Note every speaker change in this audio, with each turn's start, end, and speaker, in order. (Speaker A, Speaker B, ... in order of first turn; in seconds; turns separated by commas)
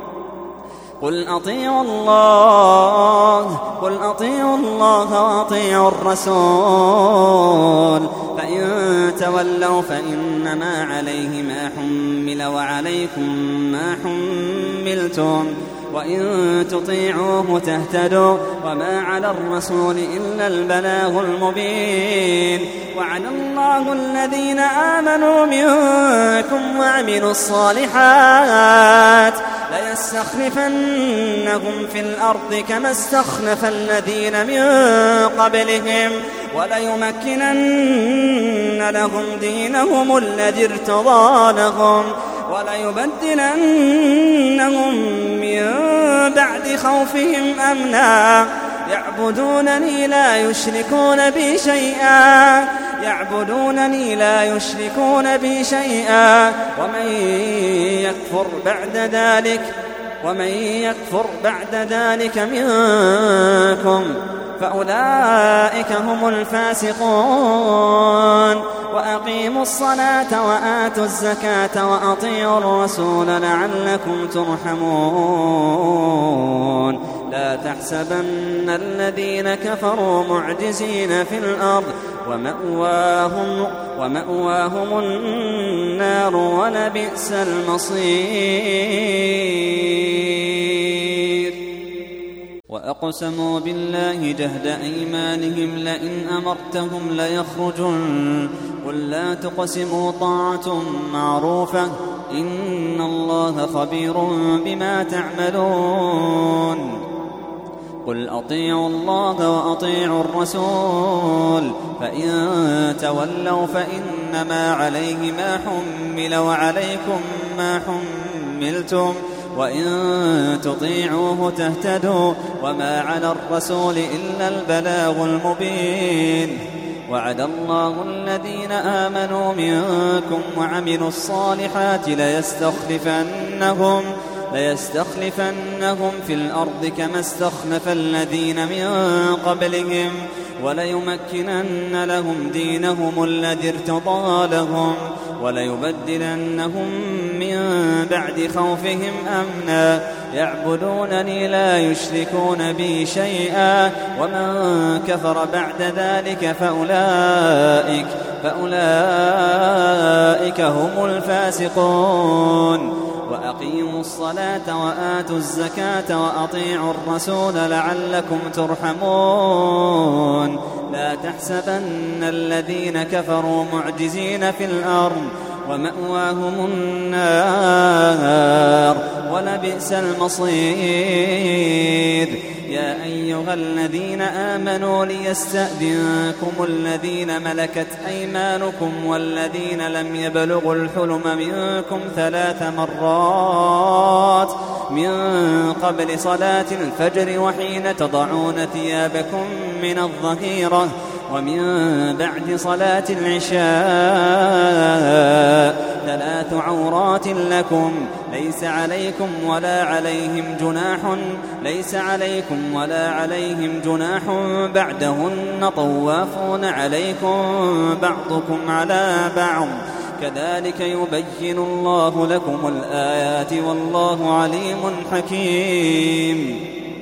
Speaker A: 1.0-59.7, Speaker A: 60.2-91.6, Speaker A: 92.7-107.0, Speaker A: 108.0-226.6